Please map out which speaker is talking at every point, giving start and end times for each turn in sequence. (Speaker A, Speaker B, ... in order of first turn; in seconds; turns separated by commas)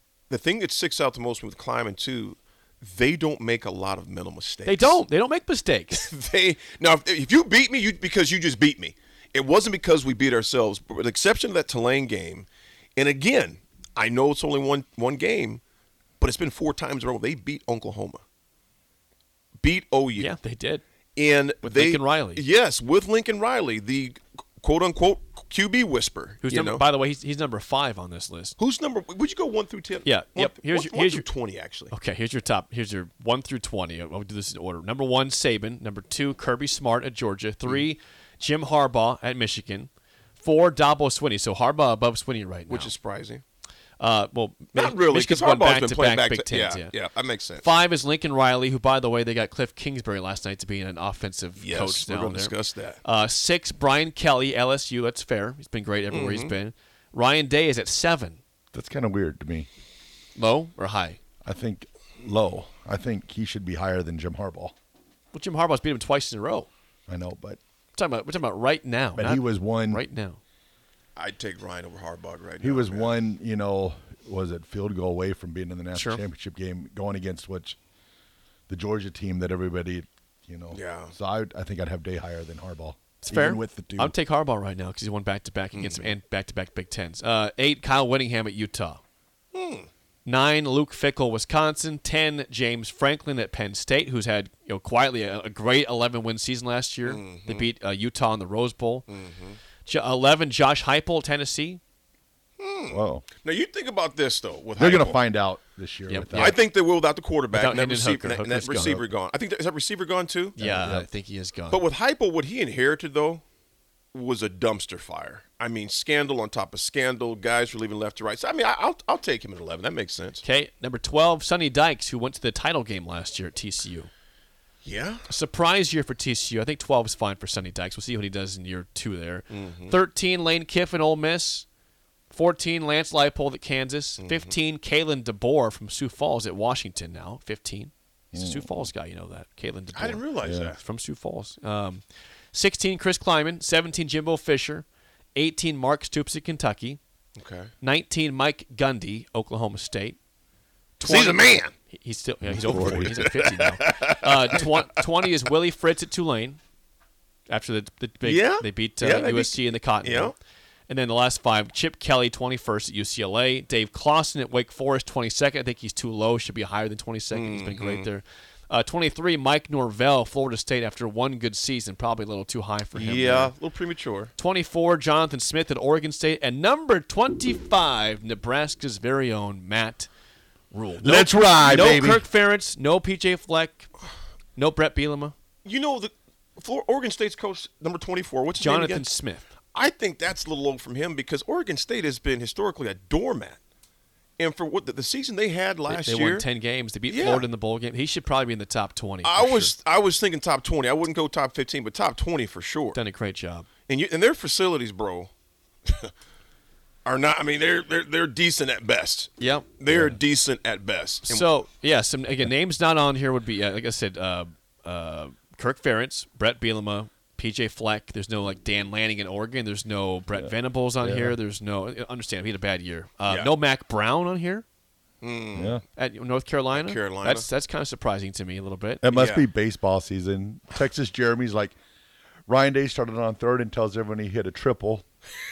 Speaker A: 0.3-5.0, Speaker B: 4.7-6.1, Speaker A: 5.9-15.6, Speaker A: 16.2-18.2, Speaker A: 19.6-20.3, Speaker B: 20.2-20.8, Speaker A: 21.1-26.8, Speaker B: 21.6-22.4, Speaker B: 26.4-28.6, Speaker A: 28.6-31.9, Speaker B: 30.0-31.3, Speaker B: 31.9-42.9, Speaker A: 42.7-43.4, Speaker B: 44.0-46.9, Speaker A: 44.7-47.6, Speaker B: 47.6-52.5, Speaker A: 51.6-53.0, Speaker B: 53.0-58.4, Speaker A: 56.1-56.5, Speaker C: 58.7-59.7, Speaker B: 60.4-61.2, Speaker C: 61.4-64.7, Speaker B: 65.3-66.7, Speaker C: 67.1-67.6, Speaker B: 67.9-70.4, Speaker C: 69.2-70.0, Speaker A: 71.2-73.2, Speaker C: 72.6-77.8, Speaker B: 75.9-76.2, Speaker C: 78.7-84.2, Speaker A: 80.7-81.1, Speaker B: 83.2-89.0, Speaker A: 85.7-86.2, Speaker A: 89.5-89.9, Speaker B: 90.2-99.1, Speaker A: 97.0-97.7, Speaker A: 99.1-99.6, Speaker B: 99.8-101.8, Speaker A: 102.6-105.2, Speaker C: 102.9-103.3, Speaker C: 104.8-106.6, Speaker B: 106.1-106.5, Speaker A: 106.3-110.6, Speaker B: 107.5-109.0, Speaker B: 110.6-111.8, Speaker C: 110.6-111.1, Speaker A: 111.7-113.4, Speaker A: 114.1-120.4, Speaker B: 120.4-124.1, Speaker A: 124.8-125.3, Speaker B: 125.3-131.7, Speaker A: 129.5-129.9, Speaker B: 132.3-147.0, Speaker A: 134.2-134.5, Speaker C: 138.3-138.9, Speaker A: 139.9-140.8, Speaker C: 140.4-140.7, Speaker A: 147.3-147.7, Speaker B: 147.8-150.2, Speaker B: 151.0-156.6, Speaker A: 151.0-151.7, Speaker C: 152.4-153.3, Speaker A: 152.6-154.7, Speaker B: 157.5-160.3, Speaker A: 158.2-160.3, Speaker B: 160.9-173.5, Speaker A: 167.3-168.1, Speaker A: 172.9-174.3, Speaker B: 174.4-180.1, Speaker B: 180.7-183.9, Speaker C: 181.0-182.3, Speaker B: 184.6-185.3, Speaker A: 185.6-189.1, Speaker B: 188.6-189.5, Speaker A: 189.7-193.6, Speaker A: 194.4-196.4, Speaker B: 195.9-199.7, Speaker A: 197.1-197.5, Speaker A: 199.2-203.0, Speaker B: 202.9-203.7, Speaker A: 203.9-205.3, Speaker A: 205.8-206.1, Speaker A: 207.0-211.5, Speaker B: 209.4-210.0, Speaker C: 209.9-210.1, Speaker B: 211.3-224.6, Speaker C: 220.3-221.4, Speaker A: 225.2-225.8, Speaker C: 225.5-225.8, Speaker B: 225.9-229.0, Speaker A: 226.7-227.5, Speaker C: 229.0-231.7, Speaker A: 229.1-229.5, Speaker C: 232.5-235.0